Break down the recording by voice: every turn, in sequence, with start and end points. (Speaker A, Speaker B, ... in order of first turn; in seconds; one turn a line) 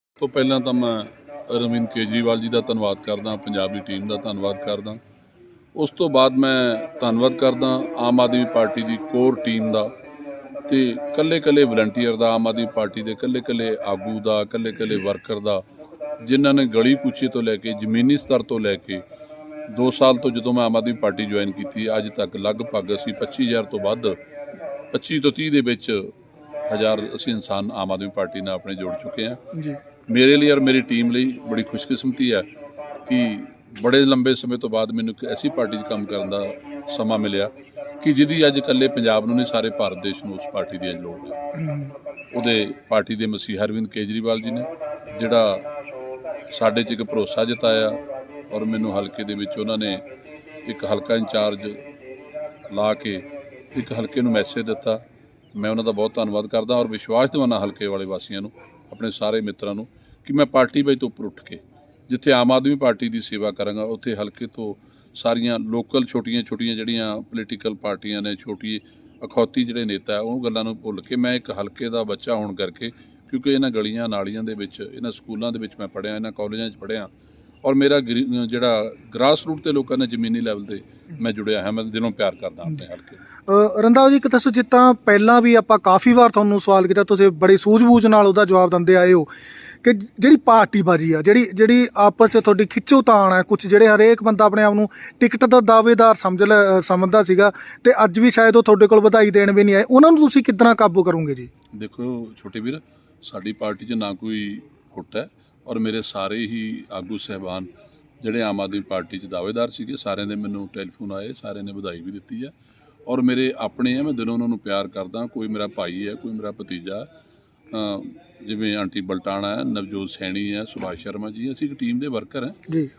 Speaker A: 0.2-5.0
Speaker A: 5.7-9.9
Speaker A: 10.7-15.6
Speaker A: 16.2-19.0
Speaker A: 19.7-24.2
Speaker A: 24.9-26.1
Speaker A: 26.6-29.4
Speaker B: 29.5-29.8
Speaker A: 30.1-32.5
Speaker A: 33.0-41.4
Speaker B: 41.6-41.9
Speaker A: 42.3-45.7
Speaker A: 46.5-48.0
Speaker A: 48.5-50.0
Speaker A: 50.6-51.8
Speaker A: 52.7-55.0
Speaker A: 55.5-77.1
Speaker A: 77.6-83.2
Speaker B: 83.5-89.3
Speaker B: 89.8-101.5
Speaker A: 101.7-107.7
Speaker A: 108.2-112.5
Speaker A: 113.1-117.1
Speaker A: 117.7-122.6